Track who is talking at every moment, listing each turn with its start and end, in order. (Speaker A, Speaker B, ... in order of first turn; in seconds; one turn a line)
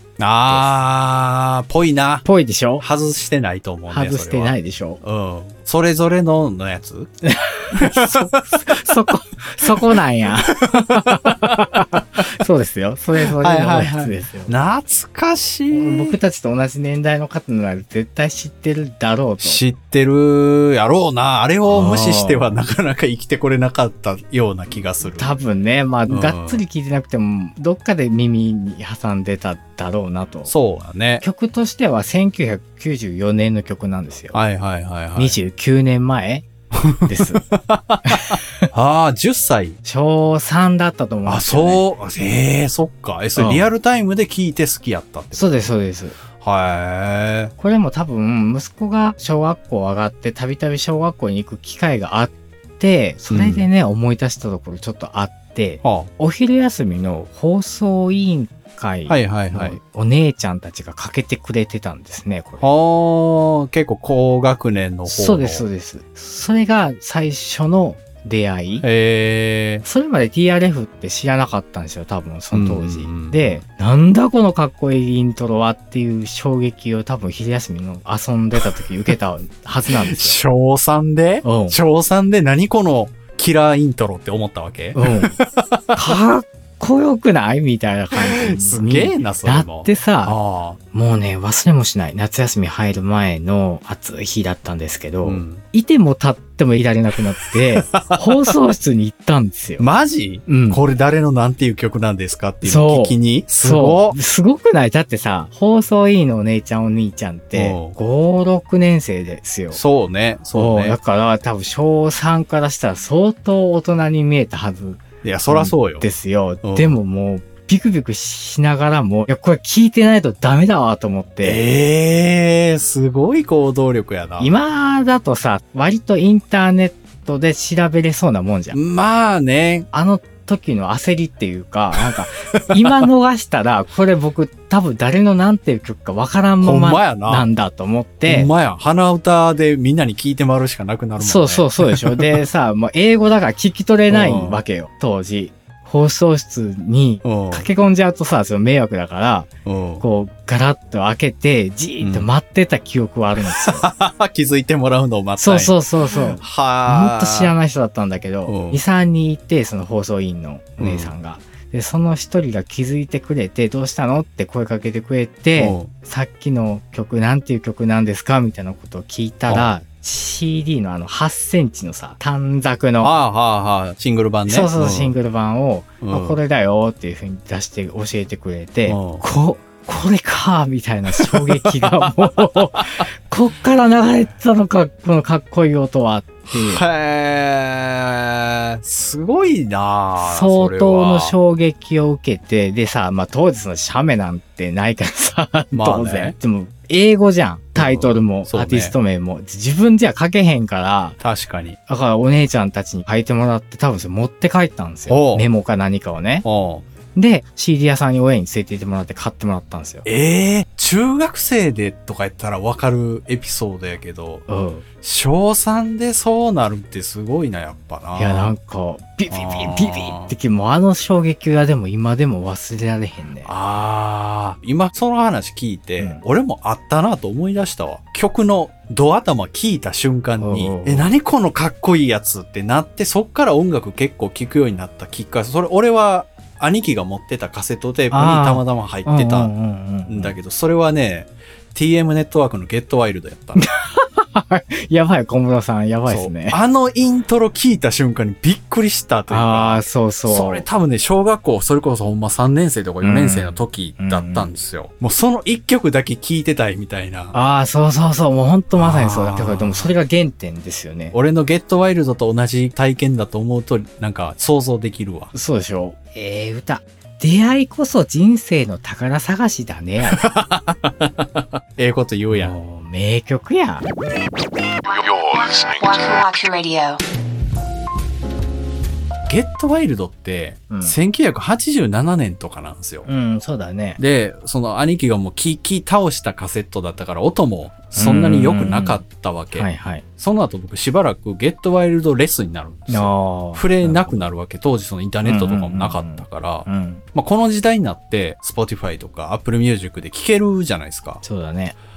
Speaker A: 0.2-2.3
Speaker B: 0.5-0.7
Speaker B: 2.2-2.8
Speaker A: 2.8-7.1
Speaker B: 3.9-5.0
Speaker B: 7.2-14.5
Speaker A: 7.7-8.8
Speaker A: 10.5-11.7
Speaker A: 13.4-16.2
Speaker B: 15.7-19.6
Speaker A: 19.4-25.4
Speaker B: 21.6-22.6
Speaker B: 25.1-30.5
Speaker A: 26.1-26.6
Speaker A: 30.5-31.2
Speaker B: 31.2-34.4
Speaker A: 34.3-35.4
Speaker B: 35.1-36.5
Speaker A: 36.7-39.8
Speaker B: 37.0-37.4
Speaker B: 38.0-38.4
Speaker B: 39.8-41.8
Speaker A: 41.2-45.7
Speaker B: 43.4-43.7
Speaker B: 45.3-46.2
Speaker A: 46.4-47.5
Speaker B: 47.6-62.6
Speaker A: 53.3-53.7
Speaker A: 55.8-56.1
Speaker A: 59.1-59.8
Speaker A: 62.6-65.7
Speaker B: 65.0-68.8
Speaker A: 68.8-69.8
Speaker B: 69.8-80.4
Speaker A: 72.5-73.6
Speaker A: 78.5-79.1
Speaker A: 79.9-86.2
Speaker B: 81.4-81.8
Speaker B: 84.9-85.4
Speaker B: 85.9-90.3
Speaker A: 88.1-90.8
Speaker B: 90.9-99.9
Speaker A: 95.2-95.6
Speaker A: 97.5-98.5
Speaker A: 99.8-104.2
Speaker B: 100.5-100.8
Speaker B: 102.6-109.8
Speaker A: 107.5-108.0
Speaker A: 109.7-111.0
Speaker B: 110.5-121.6
Speaker A: 115.2-116.1
Speaker A: 116.6-117.0
Speaker A: 121.4-124.5
Speaker B: 124.4-128.8
Speaker A: 128.7-129.9
Speaker B: 129.9-138.5
Speaker A: 131.9-133.0
Speaker A: 136.6-137.5
Speaker A: 138.2-142.4
Speaker B: 141.2-149.5
Speaker A: 144.1-144.6
Speaker A: 147.2-147.7
Speaker A: 149.6-150.0
Speaker B: 150.0-153.9
Speaker A: 152.0-152.3
Speaker A: 153.5-157.5
Speaker B: 155.4-173.1
Speaker A: 158.4-158.8
Speaker A: 160.8-161.1
Speaker A: 165.6-165.9
Speaker A: 173.0-175.2
Speaker B: 174.5-186.8
Speaker A: 176.0-176.4
Speaker A: 178.8-179.2
Speaker A: 181.1-183.0
Speaker A: 186.5-191.3
Speaker B: 190.2-201.2
Speaker A: 195.7-196.3
Speaker A: 197.8-198.9
Speaker A: 201.2-201.8
Speaker B: 201.9-206.4
Speaker A: 205.1-205.5
Speaker A: 206.4-206.8
Speaker B: 207.1-210.1
Speaker A: 210.0-214.4
Speaker B: 214.5-214.8
Speaker A: 215.0-218.5
Speaker B: 218.1-223.5
Speaker A: 219.3-220.3
Speaker A: 223.4-239.5
Speaker B: 230.4-231.1
Speaker B: 238.1-240.3
Speaker A: 240.1-243.6
Speaker B: 243.6-246.6
Speaker A: 246.1-257.3
Speaker B: 249.3-250.7
Speaker B: 253.0-254.5
Speaker B: 257.3-261.1
Speaker A: 258.8-259.9
Speaker A: 261.1-265.3
Speaker B: 265.3-270.2
Speaker A: 270.1-272.5
Speaker B: 272.3-273.9
Speaker C: 274.9-277.0
Speaker A: 279.3-283.1
Speaker B: 280.7-281.0
Speaker B: 283.1-284.0
Speaker A: 284.0-301.2
Speaker B: 287.9-290.0
Speaker B: 292.9-294.2
Speaker B: 295.2-297.0
Speaker B: 301.2-301.8